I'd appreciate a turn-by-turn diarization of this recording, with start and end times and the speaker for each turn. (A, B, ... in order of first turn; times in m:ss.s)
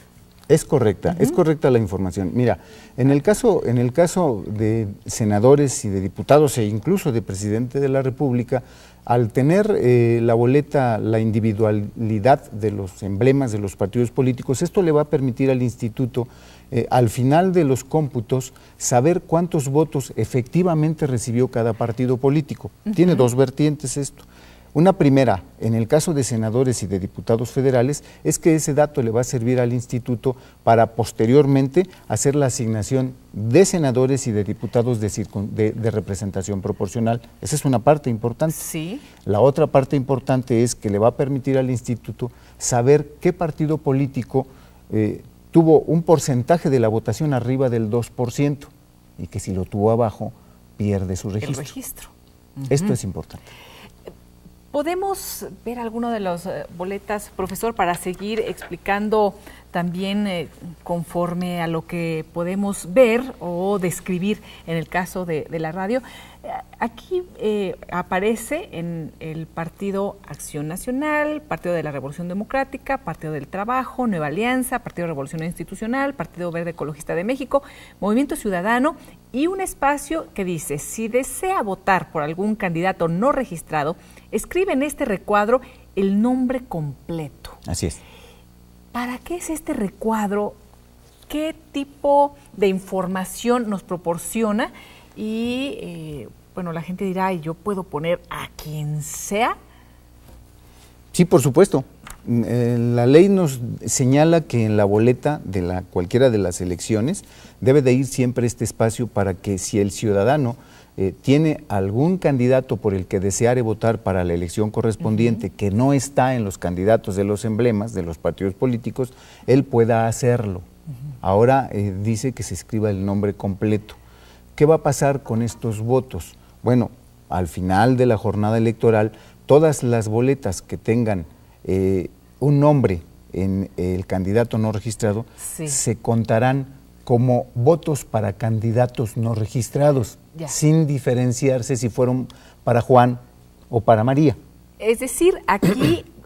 0:00.5-0:38.6 A
0:01.1-0:01.4 B
0:22.9-0:23.2 B
0:38.5-0:39.0 B
0:39.2-0:51.7 A
0:51.4-0:52.9 B
0:52.7-0:53.4 A
0:54.7-1:27.6 B
1:27.6-1:28.0 A
1:28.9-1:30.6 B
1:31.3-1:39.6 B
1:41.1-2:00.6 A
2:01.2-2:04.0 A
2:04.6-2:24.4 A
2:15.4-2:15.8 B
2:24.8-2:26.1 B